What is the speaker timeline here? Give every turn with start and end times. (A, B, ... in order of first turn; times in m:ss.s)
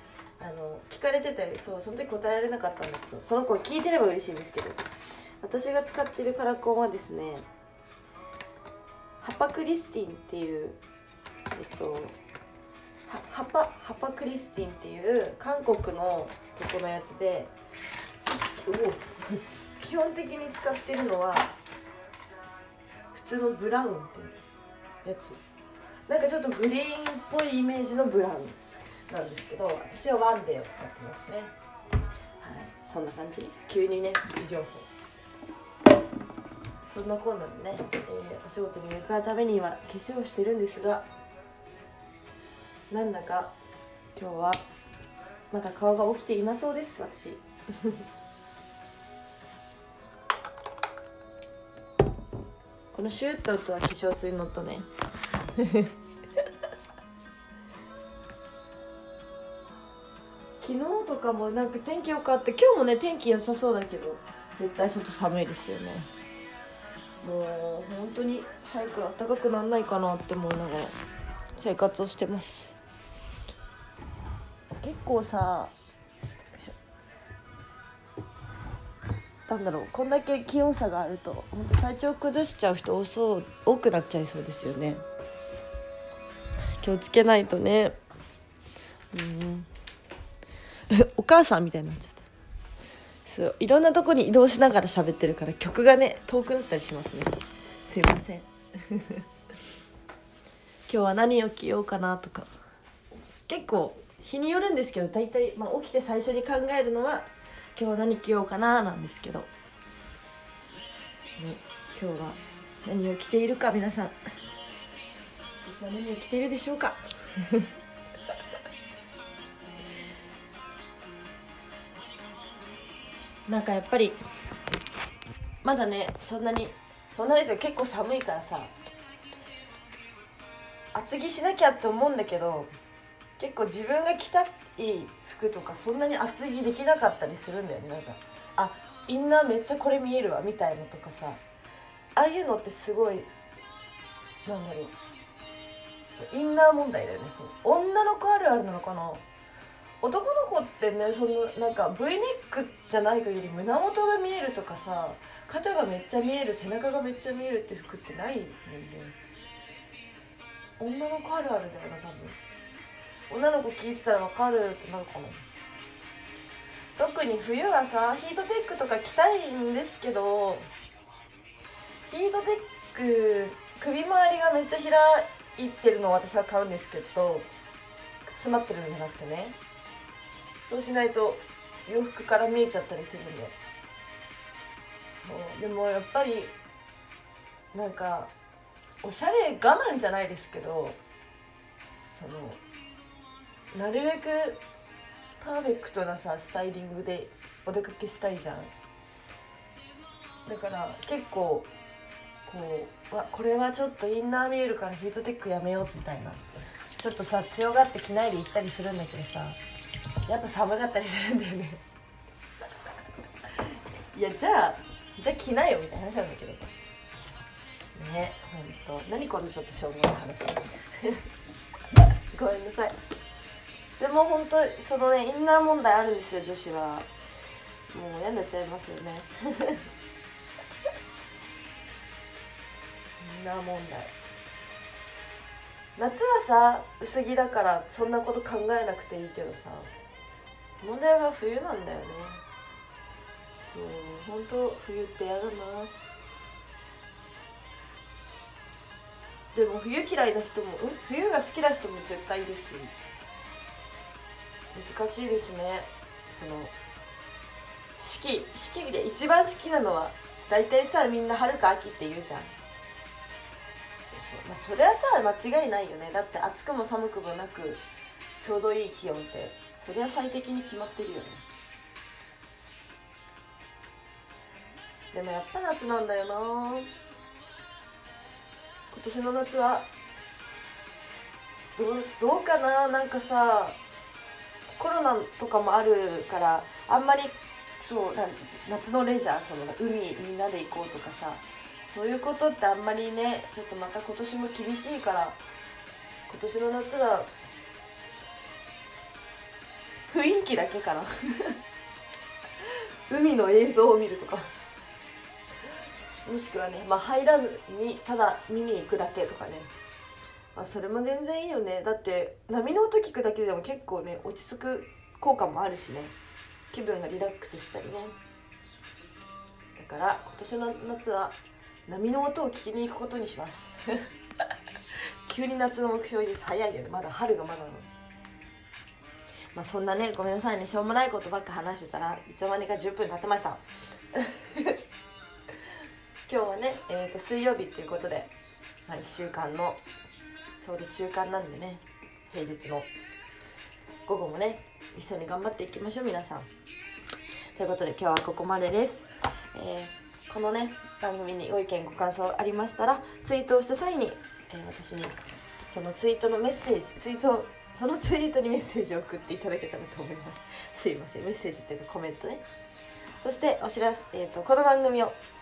0:00.4-0:07.5 A
0:09.2-0:10.8 A
0:11.5-0:12.2 A
0:13.1-0:17.5 A
0:18.2-0:21.5 A
0:23.1-0:24.5 A
0:25.0-0:25.4 A
0:26.1-0:31.5 A
0:32.4-0:34.9 A
0:36.8-0:41.1 A
0:42.9-0:43.5 A
0:44.1-0:44.6 A
0:45.5-0:48.0 A
0:52.9-0:54.9 A
0:55.6-0:56.4 A
1:00.6-1:06.1 A
1:07.2-1:11.0 A
1:11.6-1:12.8 A
1:14.8-1:15.7 A
1:19.5-1:25.0 A
1:26.8-1:28.0 A
1:29.1-1:29.7 A
1:30.9-1:32.3 A
1:33.2-1:39.2 A
1:40.9-1:42.5 A
1:43.5-1:49.5 A
1:51.4-1:54.2 A
1:55.6-1:57.7 A
2:03.5-2:04.2 A
2:05.6-2:08.7 A
2:10.9-2:12.7 A
2:13.4-2:21.4 A
2:22.2-2:23.3 A
2:24.4-2:25.0 A
2:26.2-2:29.2 A
2:30.0-2:39.2 A
2:40.8-2:42.4 A
2:43.3-2:45.4 A
2:47.0-2:50.7 A
2:52.1-2:57.5 A
2:58.2-2:59.6 A
3:00.6-3:03.6 A
3:05.2-3:06.6 A
3:07.7-3:08.3 A
3:09.0-3:11.0 A
3:12.1-3:12.6 A
3:13.7-3:14.6 A
3:15.4-3:18.7 A
3:20.4-3:21.7 A
3:22.4-3:29.6 A
3:30.2-3:31.8 A
3:34.1-3:36.7 A
3:38.0-3:41.3 A
3:42.3-3:43.0 A
3:44.0-3:47.1 A
3:47.9-3:49.9 A
3:53.2-3:54.1 A
3:56.0-3:59.9 A
4:00.8-4:02.4 A
4:03.6-4:05.9 A
4:09.5-4:13.0 A
4:14.7-4:16.7 A
4:18.0-4:22.6 A
4:24.0-4:27.8 A
4:28.4-4:31.4 A
4:35.1-4:36.9 A
4:38.9-4:39.9 A
4:41.8-4:43.8 A
4:44.8-4:55.4 A
4:56.3-4:57.3 A
5:00.1-5:01.6 A
5:02.6-5:04.5 A
5:06.2-5:09.7 A
5:10.5-5:16.1 A
5:16.7-5:18.2 A
5:19.7-5:24.1 A
5:25.2-5:27.9 A
5:29.5-5:34.8 A
5:36.3-5:38.3 A
5:38.9-5:39.8 A
5:40.6-5:42.9 A
5:44.1-5:46.5 A
5:47.5-5:55.2 A
5:55.7-6:02.4 A
6:03.2-6:05.2 A